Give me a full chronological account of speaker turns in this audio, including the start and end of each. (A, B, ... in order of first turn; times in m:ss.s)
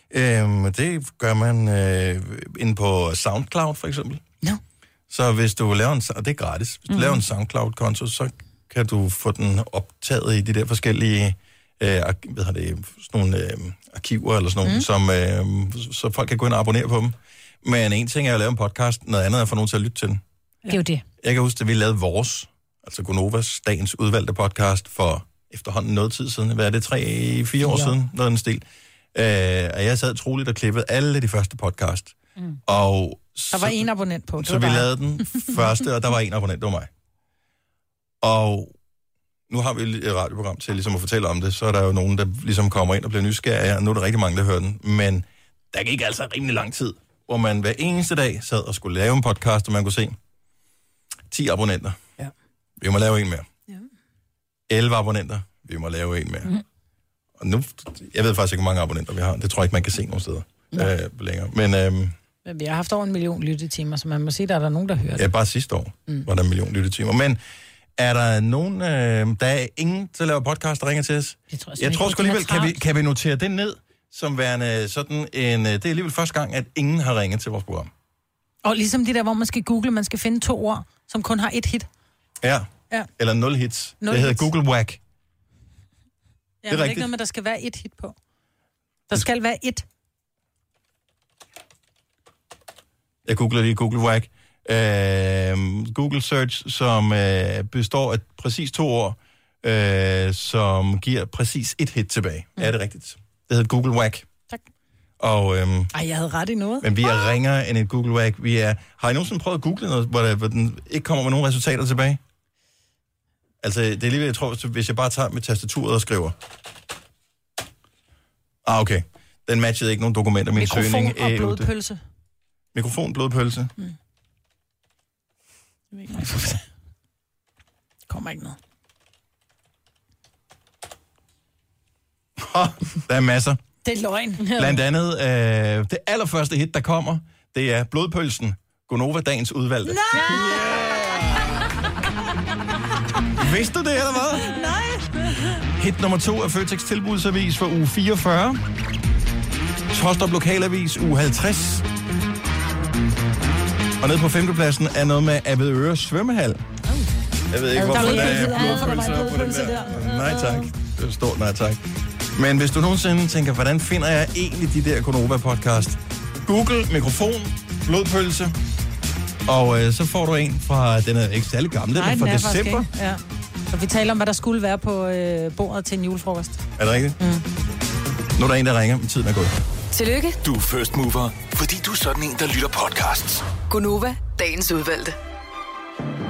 0:00.1-0:04.2 A
0:05.1-0:20.2 A
0:06.9-0:07.2 B
0:20.7-0:21.0 B
0:21.2-0:32.2 A
0:27.6-0:27.9 C
0:32.7-0:33.8 A
0:33.5-0:35.5 C
0:34.4-0:36.9 A
0:38.2-0:38.7 A
0:39.5-0:50.2 A
0:51.3-0:52.0 A
0:52.8-0:53.5 A
0:54.7-0:56.5 A
0:57.4-1:02.1 A
1:02.5-1:05.3 C
1:05.2-1:07.4 A
1:08.0-1:17.9 A
1:11.5-1:12.8 B
1:18.6-1:21.9 C
1:22.4-1:25.0 A
1:24.0-1:24.5 C
1:26.6-1:28.2 C
1:26.7-1:27.1 A
1:29.1-1:29.8 C
1:33.2-1:44.3 A
1:45.2-1:45.9 A
1:45.9-1:46.9 C
1:46.8-1:52.2 A
1:53.6-1:56.4 A
1:58.6-2:01.7 A
2:00.6-2:02.0 C
2:02.7-2:03.7 A
2:05.9-2:06.6 C
2:08.1-2:08.6 C
2:12.4-2:13.6 A
2:13.8-2:14.5 C
2:14.6-2:21.8 A
2:19.9-2:20.7 C
2:23.4-2:24.5 A
2:24.5-2:25.4 C
2:25.8-2:28.6 A
2:29.9-2:31.9 A
2:34.0-2:36.6 A
2:37.5-2:41.8 A
2:37.8-2:40.7 B
2:37.8-2:40.2 C
2:42.3-2:48.6 A
2:49.5-2:52.9 A
2:52.0-2:53.2 C
2:53.7-2:56.6 C
2:56.8-2:57.2 A
2:58.4-2:59.6 A
2:59.9-3:00.4 D
3:00.4-3:03.5 E
3:03.6-3:05.2 D